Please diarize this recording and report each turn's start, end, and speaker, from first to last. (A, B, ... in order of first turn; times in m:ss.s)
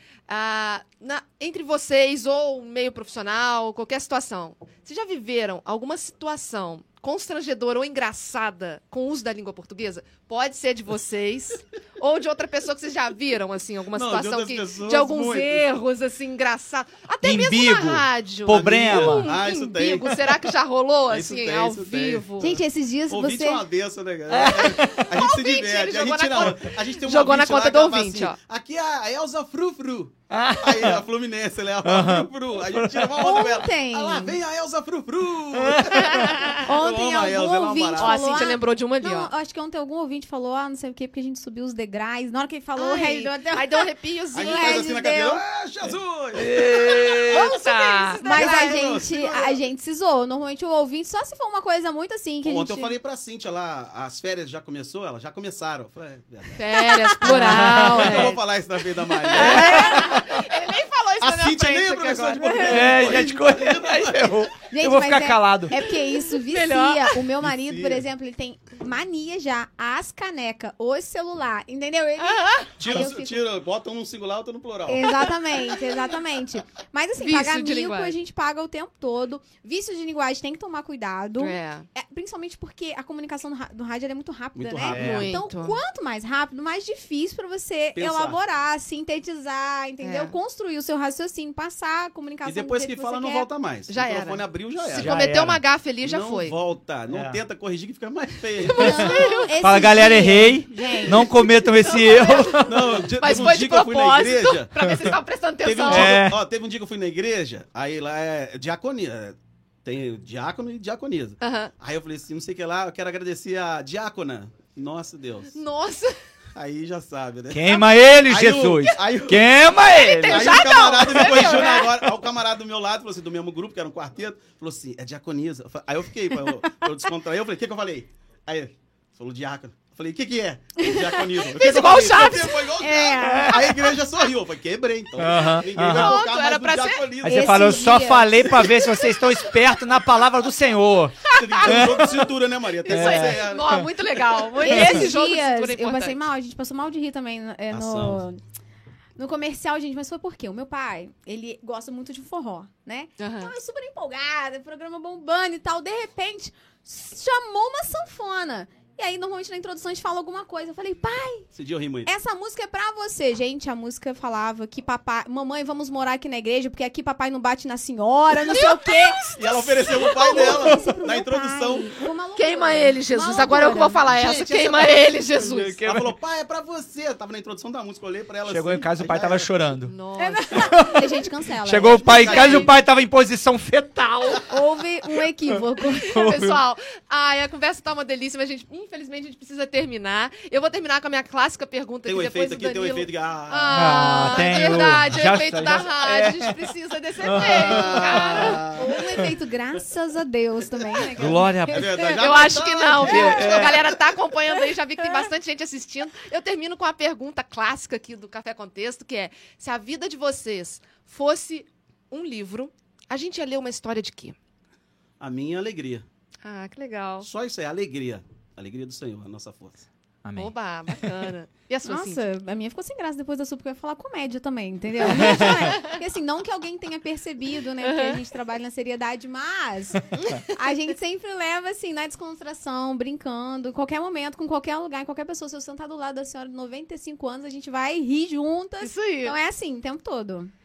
0:00.3-0:22.6 A
0:13.9-0:15.7 B
0:17.2-0:19.3 C
0:18.5-0:20.5 B
0:21.1-0:22.3 B
0:22.4-0:23.7 D
0:23.1-0:38.4 B
0:24.3-0:25.1 C
0:24.9-0:28.4 A
0:30.3-0:31.0 C
0:31.8-0:33.2 C
0:33.2-0:34.4 D
0:35.5-0:36.2 C
0:35.9-0:36.7 A
0:36.6-0:45.4 D
0:38.0-0:39.3 A
0:42.8-0:45.4 A
0:44.3-0:47.6 B
0:46.4-0:48.2 C
0:47.3-0:49.4 A
0:48.2-0:53.0 D
0:48.2-0:49.6 B
0:52.4-1:00.2 B
0:56.6-0:58.4 A
0:56.8-0:57.9 D
0:57.2-0:58.4 C
0:59.1-1:02.8 A
0:59.3-1:00.4 C
0:59.4-1:00.1 D
1:01.2-1:04.5 B
1:02.6-1:05.8 C
1:04.7-1:13.4 D
1:05.8-1:07.3 A
1:07.4-1:08.1 B
1:12.2-1:13.1 A
1:12.8-1:15.3 B
1:14.9-1:33.5 D
1:17.2-1:18.2 A
1:21.4-1:21.9 A
1:24.6-1:25.2 B
1:24.9-1:25.3 C
1:24.9-1:25.8 A
1:28.0-1:28.4 B
1:30.0-1:30.4 A
1:32.4-1:35.2 B
1:33.9-1:36.6 A
1:35.0-1:35.6 C
1:36.0-1:39.3 B
1:37.1-1:37.4 C
1:38.6-1:39.6 A
1:38.7-1:42.6 D
1:39.6-1:43.1 C
1:41.1-1:46.3 A
1:42.5-1:55.5 B
1:45.9-1:46.4 C
1:51.4-1:51.7 A
1:55.5-1:56.2 A
1:56.6-2:18.1 B
1:57.5-2:01.4 C
1:59.8-2:02.0 A
2:11.3-2:12.7 A
2:12.0-2:12.3 C
2:12.8-2:13.9 D
2:13.2-2:13.7 C
2:15.2-2:16.2 C
2:15.8-2:17.1 A
2:17.2-2:22.2 C
2:17.3-2:18.9 D
2:21.3-2:23.8 B
2:21.3-2:22.2 A
2:22.8-2:26.2 A
2:22.9-2:23.9 C
2:24.6-2:28.4 D
2:24.6-2:25.1 C
2:27.7-2:28.2 B
2:29.2-2:41.5 D
2:33.2-2:33.5 A
2:41.5-2:42.1 B
2:42.0-2:49.2 D
2:48.4-2:50.6 A
2:49.4-2:51.9 B
2:49.8-2:54.0 D
2:52.4-2:55.8 A
2:54.0-2:59.6 B
2:55.4-2:56.1 C
2:58.5-2:59.9 C
2:59.8-3:00.7 A
3:00.2-3:02.6 D
3:00.5-3:04.5 C
3:01.8-3:02.7 B
3:02.3-3:02.7 A
3:04.5-3:06.1 D
3:06.0-3:06.6 C
3:06.0-3:18.7 A
3:12.1-3:15.0 B
3:13.7-3:16.6 C
3:17.2-3:19.3 C
3:17.4-3:18.9 B
3:18.6-3:22.2 D
3:21.1-3:22.1 C
3:21.2-3:23.9 B
3:22.2-3:34.4 A
3:23.0-3:24.0 C
3:35.2-3:36.0 B
3:36.4-3:37.3 A
3:37.2-3:39.9 B
3:40.2-3:40.5 C
3:40.4-3:42.2 A
3:41.8-4:00.5 D
3:45.0-3:45.8 C
3:45.1-3:45.8 A
3:47.8-3:48.2 A
3:50.2-3:50.5 A
3:58.8-3:59.4 A